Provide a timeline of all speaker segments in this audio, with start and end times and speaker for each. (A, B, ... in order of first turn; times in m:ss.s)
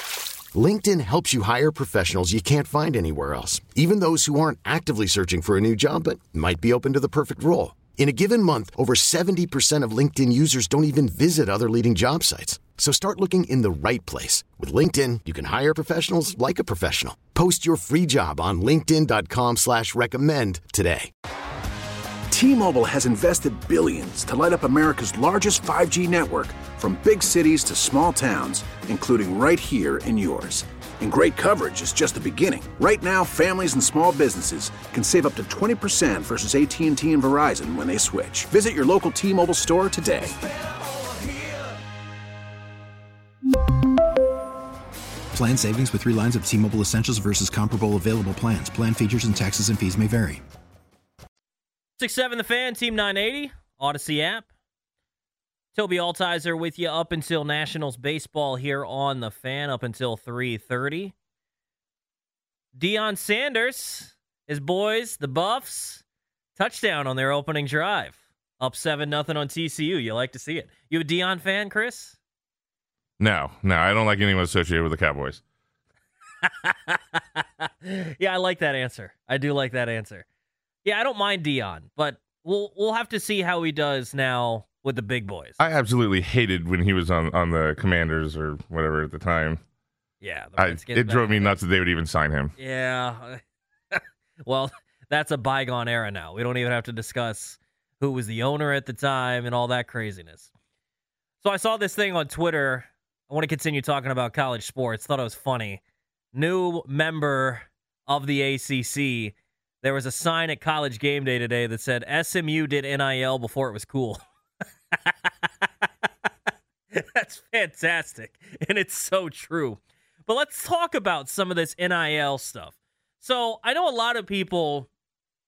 0:00.5-0:21.1 A
0:22.3-0:40.4 B
0:45.3-0:50.4 C
0:52.0-0:54.5 D
0:55.7-1:01.1 D
1:02.7-1:06.0 D
1:06.6-1:12.2 D
1:13.2-1:15.4 E
1:16.4-1:20.2 D
1:20.8-1:25.6 D
1:25.6-1:29.6 E
1:30.2-1:31.6 D
1:30.6-1:32.5 E
1:32.6-1:33.4 D
1:33.9-1:40.5 D
1:41.4-1:45.8 D
1:46.3-1:54.2 D
1:54.9-1:55.5 D
1:56.9-2:04.9 D